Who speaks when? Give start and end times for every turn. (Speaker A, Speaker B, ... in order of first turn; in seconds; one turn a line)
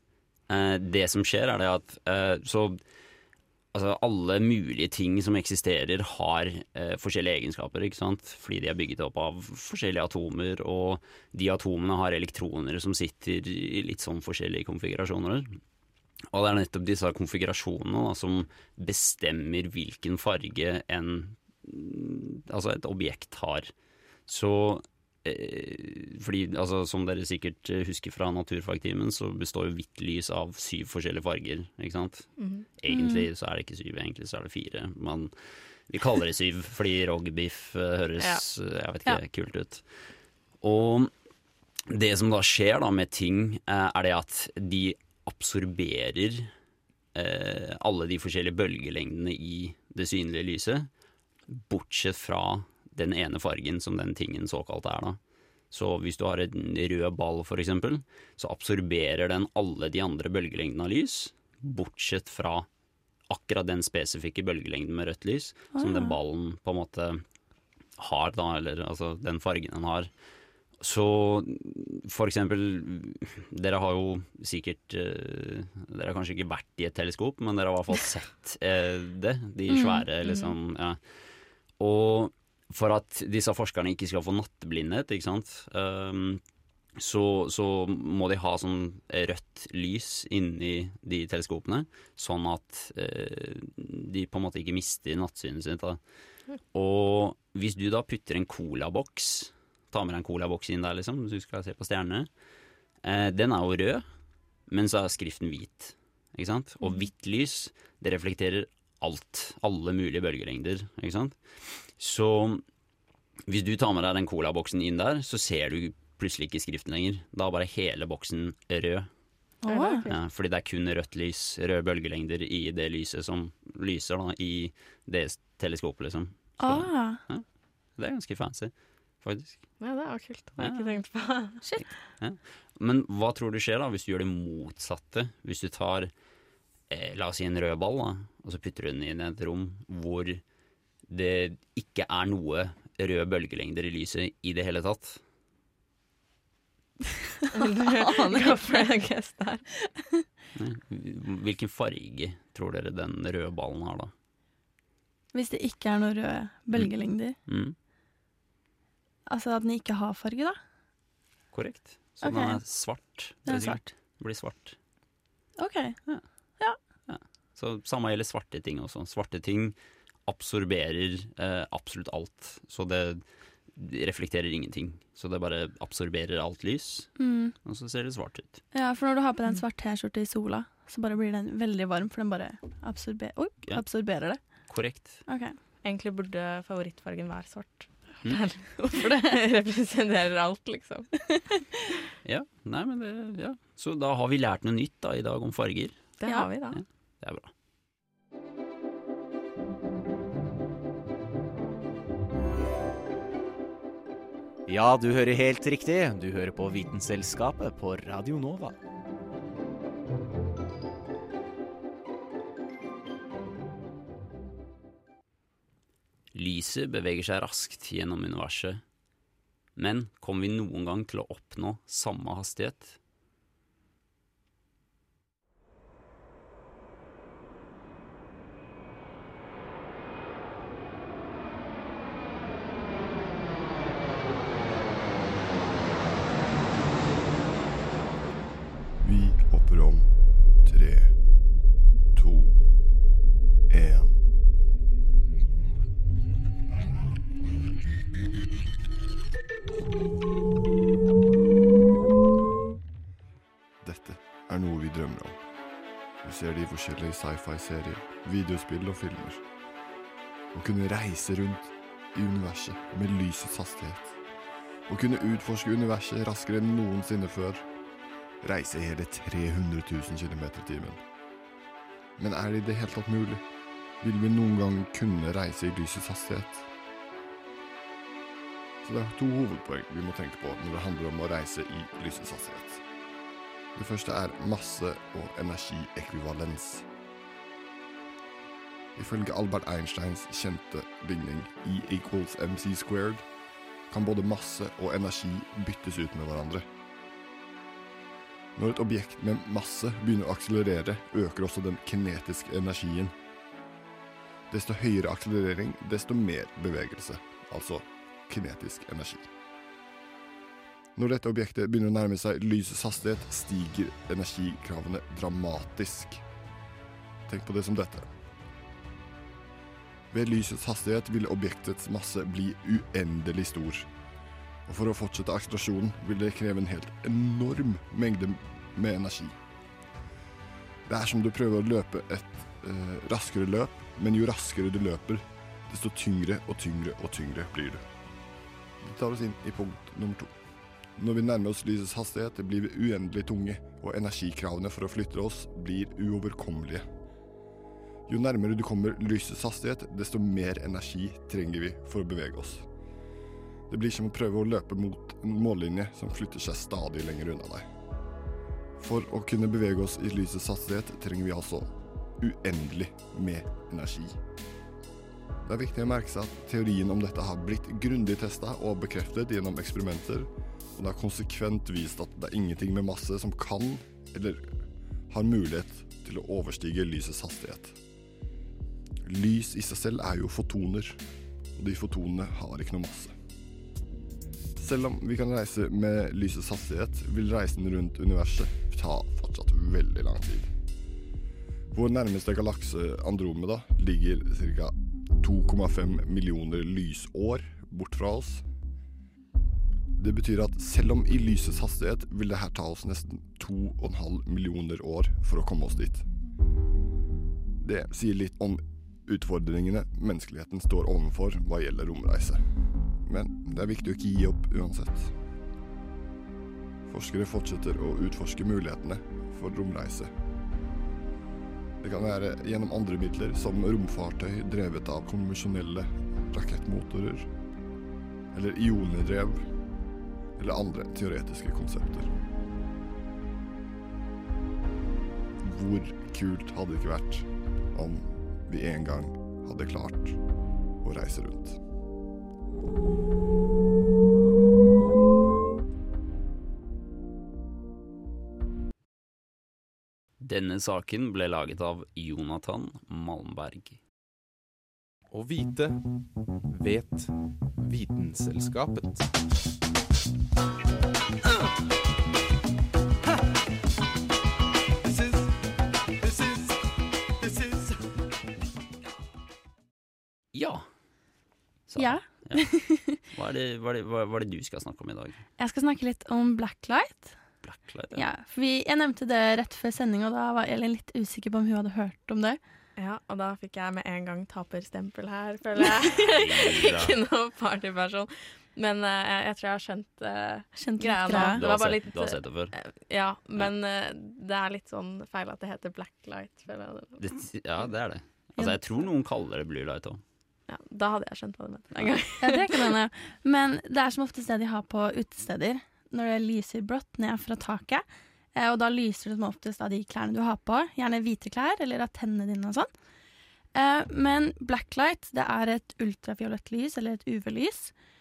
Speaker A: 0.5-2.8
Speaker A: 3.7-15.6
Speaker A: 16.3-23.7
Speaker A: 24.3-35.3
Speaker B: 32.4-32.6
Speaker C: 32.9-33.3
Speaker A: 35.9-39.8
Speaker A: 40.6-41.1
Speaker A: 41.9-46.5
Speaker A: 47.1-50.9
Speaker A: 51.5-55.2
Speaker A: 55.7-62.7
Speaker A: 63.3-67.2
Speaker C: 65.7-66.2
Speaker A: 68.0-70.1
Speaker A: 70.8-81.0
Speaker C: 79.7-80.1
Speaker B: 80.2-80.5
Speaker A: 81.8-86.4
Speaker A: 87.0-96.0
Speaker A: 96.7-102.3
Speaker A: 103.0-104.0
Speaker A: 104.7-112.6
Speaker A: 113.5-119.1
Speaker C: 119.6-120.1
Speaker B: 119.7-120.2
Speaker A: 120.1-127.4
Speaker C: 126.6-127.2
Speaker A: 128.0-129.7
Speaker B: 129.8-131.6
Speaker A: 130.6-130.8
Speaker C: 131.6-131.9
Speaker A: 131.8-136.1
Speaker A: 136.9-140.4
Speaker A: 141.1-145.2
Speaker B: 147.5-149.6
Speaker C: 147.6-148.9
Speaker A: 150.5-154.1
Speaker C: 155.3-157.4
Speaker A: 157.4-157.8
Speaker C: 159.3-160.6
Speaker A: 161.5-164.8
Speaker C: 162.2-163.9
Speaker C: 165.6-166.8
Speaker A: 167.1-169.7
Speaker A: 170.2-173.2
Speaker A: 173.7-178.6
Speaker C: 177.2-177.5
Speaker C: 178.7-184.4
Speaker A: 184.7-185.2
Speaker C: 185.2-185.6
Speaker B: 185.8-191.1
Speaker C: 188.8-189.4
Speaker A: 192.2-196.0
Speaker B: 196.2-196.8
Speaker C: 196.2-196.5
Speaker A: 196.8-197.5
Speaker D: 204.7-208.8
Speaker A: 216.3-218.8
Speaker A: 219.8-223.0
Speaker E: 239.0-240.1
Speaker E: 240.6-241.1
Speaker E: 242.1-242.6
Speaker E: 243.7-244.2
Speaker E: 253.8-255.4
Speaker E: 256.2-259.4
Speaker E: 260.5-264.2
Speaker E: 264.9-267.6
Speaker E: 268.4-271.0
Speaker E: 272.2-273.4
Speaker E: 274.0-276.7
Speaker E: 278.8-282.8
Speaker E: 283.7-286.9
Speaker E: 288.9-293.2
Speaker E: 293.9-296.7
Speaker E: 298.6-303.1
Speaker E: 304.5-309.3
Speaker E: 310.9-316.2
Speaker E: 317.3-318.1
Speaker E: 320.1-323.9
Speaker E: 324.7-329.4
Speaker E: 330.9-337.8
Speaker E: 338.8-340.4
Speaker E: 341.0-346.8
Speaker E: 348.1-352.6
Speaker E: 353.7-357.6
Speaker E: 358.8-364.2
Speaker E: 365.4-374.5
Speaker E: 375.1-377.8
Speaker E: 379.0-381.0
Speaker E: 381.6-383.1
Speaker E: 384.6-390.5
Speaker E: 391.7-398.4
Speaker E: 399.9-406.0
Speaker E: 407.6-412.5
Speaker E: 413.0-415.1
Speaker E: 416.9-420.1
Speaker E: 421.8-427.3
Speaker E: 428.3-429.5
Speaker E: 430.4-432.1
Speaker E: 435.4-440.2
Speaker E: 440.8-441.6
Speaker A: 450.2-453.8
Speaker F: 455.1-459.1
Speaker A: 470.3-470.7
Speaker A: 471.7-472.4
Speaker C: 471.8-473.0
Speaker A: 473.0-475.2
Speaker C: 475.4-477.2
Speaker A: 477.4-478.0
Speaker C: 477.9-482.4
Speaker B: 482.8-497.1
Speaker A: 486.0-486.9
Speaker C: 490.6-491.4
Speaker A: 491.1-492.5
Speaker A: 497.0-500.0
Speaker B: 500.5-502.7
Speaker C: 502.2-512.7
Speaker C: 513.5-517.7